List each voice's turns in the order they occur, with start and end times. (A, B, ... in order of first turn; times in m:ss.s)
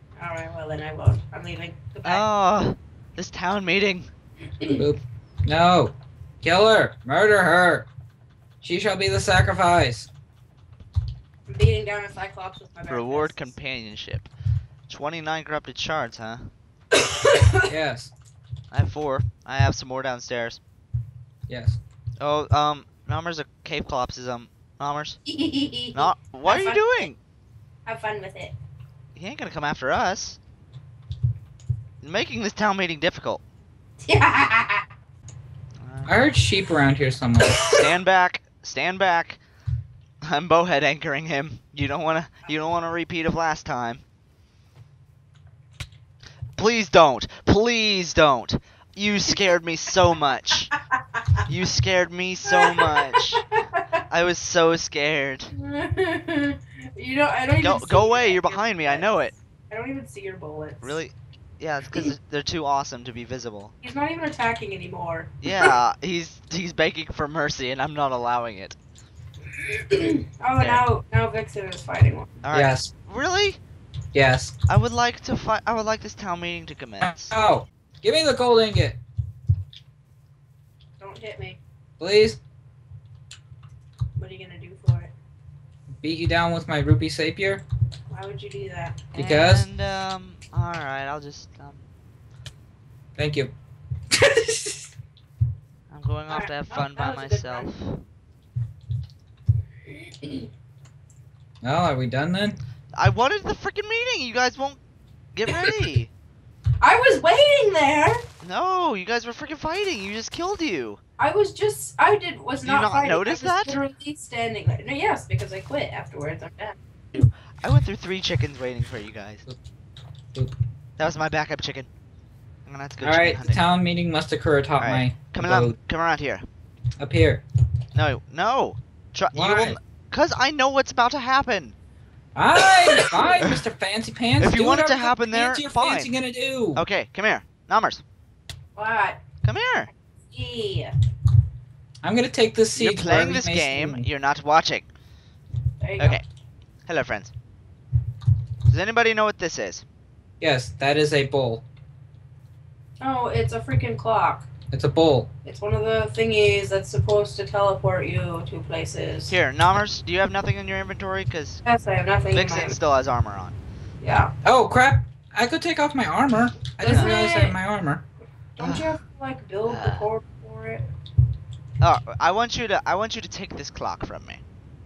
0:00.2-0:02.3 A
0:02.0-0:04.1 B
0:04.8-0:07.9 C
0:08.6-0:10.1 C
0:11.5-0:13.5 A
0:12.9-0:14.3 B
0:14.9-0:16.5 B
0:17.2-0:17.6 A
0:17.7-0:18.1 C
0:18.7-0:20.6 B
0:21.5-0:21.8 C
0:22.2-0:25.2 B
0:25.3-0:27.1 A
0:25.9-0:27.2 B
0:27.8-0:28.5 A
0:29.1-0:30.4 B
0:32.0-0:33.4 B
0:34.0-0:34.8 A
0:35.8-0:36.2 B
0:36.0-0:37.7 C
0:37.6-0:39.4 B
0:40.2-0:44.0 B
0:46.6-0:50.7 B
0:51.5-0:53.4 B
0:52.4-0:53.8 A
0:54.1-0:55.5 B
0:55.5-1:01.0 A
0:57.6-0:59.3 B
1:00.8-1:03.7 B
1:03.8-1:05.6 A
1:05.4-1:08.8 B
1:09.6-1:12.4 A
1:12.4-1:13.6 B
1:12.5-1:12.9 C
1:14.1-1:14.5 C
1:14.7-1:17.3 B
1:17.0-1:19.0 C
1:21.0-1:21.6 A
1:22.0-1:22.4 C
1:24.2-1:25.1 A
1:26.0-1:27.6 C
1:28.1-1:29.0 A
1:29.1-1:29.7 C
1:29.1-1:31.8 B
1:33.2-1:33.5 C
1:34.1-1:34.8 C
1:35.9-1:38.0 B
1:36.3-1:37.7 A
1:40.2-1:40.4 A
1:41.6-1:42.6 C
1:42.9-1:44.8 B
1:45.3-1:46.1 B
1:46.8-1:48.2 A
1:48.4-1:51.0 B
1:51.2-1:56.8 A
1:52.6-1:53.8 B
1:57.1-1:59.4 B
2:01.0-2:01.9 B
2:02.6-2:03.6 B
2:03.0-2:05.8 C
2:04.8-2:06.4 B
2:07.0-2:07.4 C
2:07.9-2:11.7 B
2:09.3-2:09.8 C
2:12.3-2:16.8 C
2:12.8-2:13.6 B
2:14.4-2:16.1 B
2:16.7-2:18.0 B
2:18.8-2:19.2 A
2:19.4-2:19.9 B
2:20.3-2:20.9 A
2:22.0-2:24.0 C
2:22.8-2:24.9 B
2:25.8-2:26.2 A
2:26.9-2:27.3 B
2:28.7-2:29.8 B
2:30.4-2:31.6 C
2:33.0-2:34.5 A
2:34.7-2:35.3 C
2:35.4-2:39.4 A
2:39.3-2:41.6 B
2:41.6-2:42.8 A
2:42.3-2:43.6 B
2:44.0-2:44.3 A
2:44.4-2:48.0 C
2:46.8-2:47.6 A
2:46.9-2:47.1 B
2:48.6-2:50.8 A
2:49.6-2:50.1 B
2:51.8-2:54.4 B